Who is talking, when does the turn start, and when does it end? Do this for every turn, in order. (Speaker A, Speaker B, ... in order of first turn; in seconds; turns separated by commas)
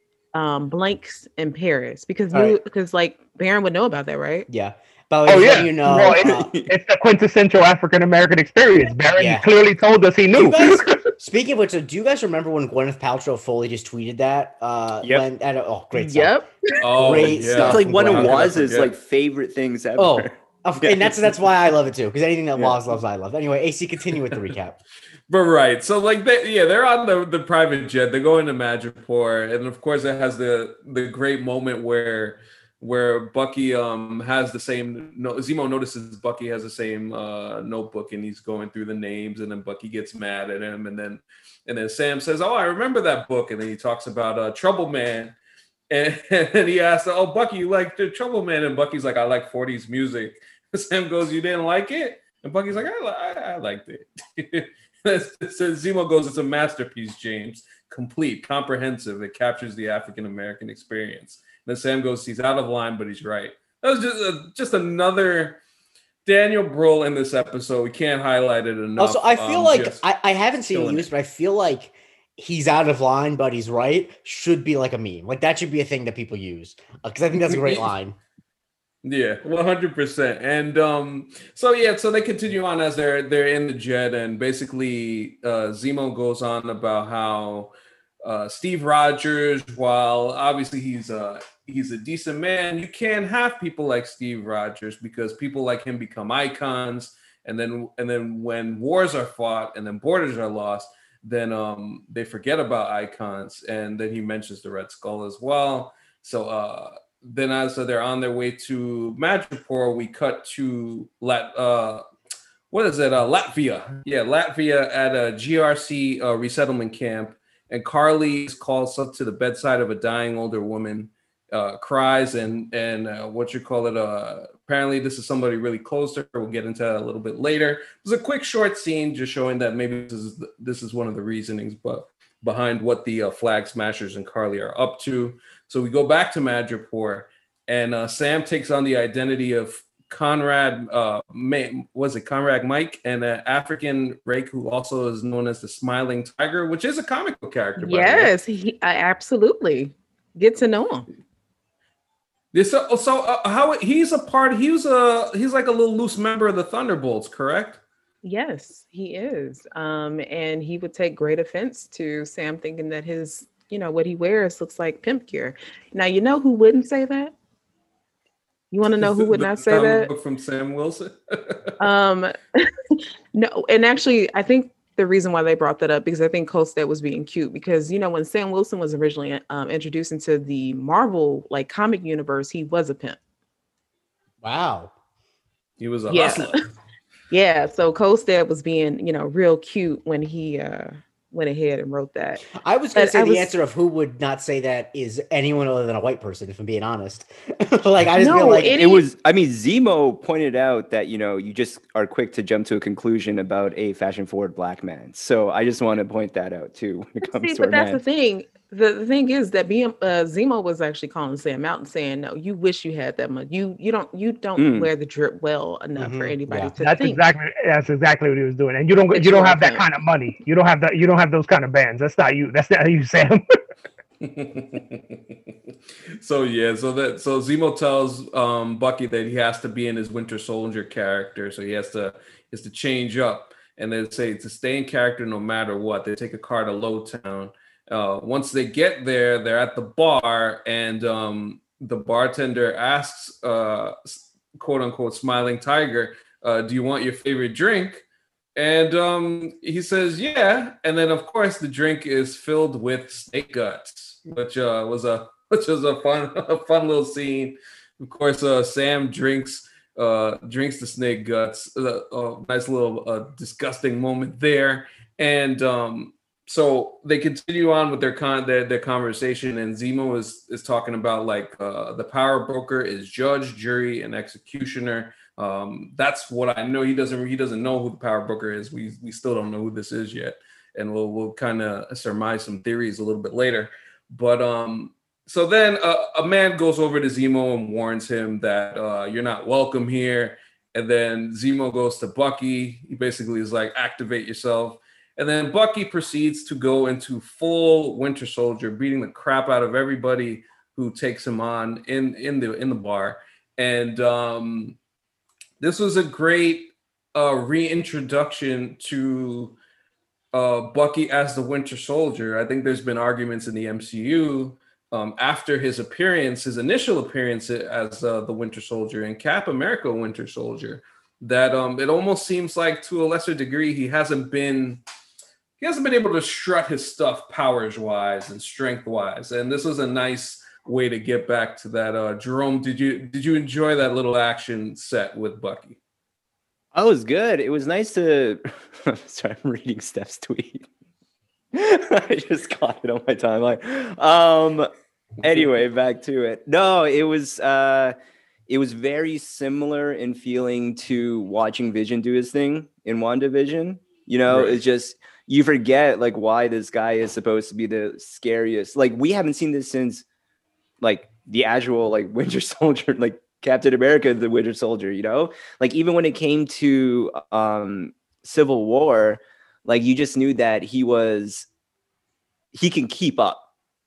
Speaker A: 0.3-4.5, Speaker B: 2.3-2.6, Speaker B: 4.5-6.5, Speaker C: 5.2-11.0, Speaker D: 6.0-6.7, Speaker B: 9.2-9.5, Speaker B: 10.3-16.4, Speaker A: 15.9-16.5, Speaker E: 16.8-18.9, Speaker B: 17.0-18.6, Speaker D: 17.1-21.4, Speaker B: 20.0-24.8, Speaker E: 25.3-45.3, Speaker E: 45.9-65.6, Speaker E: 66.2-70.0, Speaker B: 69.0-78.2, Speaker E: 70.7-71.1, Speaker E: 77.4-77.9, Speaker E: 79.0-87.7, Speaker E: 88.2-112.0, Speaker E: 112.7-148.3, Speaker A: 147.8-151.1, Speaker E: 152.5-157.8, Speaker A: 158.2-167.3, Speaker A: 168.7-170.1, Speaker E: 169.0-171.7, Speaker A: 171.8-183.2, Speaker B: 184.4-184.9, Speaker E: 185.8-186.6, Speaker A: 186.1-186.5, Speaker A: 187.3-192.4, Speaker B: 192.5-198.8, Speaker A: 192.9-193.5, Speaker A: 198.2-199.1, Speaker D: 198.7-208.0, Speaker A: 207.2-217.2, Speaker D: 214.6-214.9, Speaker B: 216.0-216.7, Speaker C: 216.8-223.4, Speaker A: 219.1-219.8, Speaker E: 224.2-225.3, Speaker E: 226.1-248.0, Speaker E: 248.6-304.8, Speaker E: 305.6-309.6, Speaker E: 310.3-324.8, Speaker E: 325.6-335.8, Speaker D: 336.7-340.6, Speaker D: 341.5-344.7, Speaker D: 345.2-347.9, Speaker D: 348.5-360.0, Speaker E: 354.3-354.6, Speaker D: 360.8-371.5, Speaker D: 372.5-373.4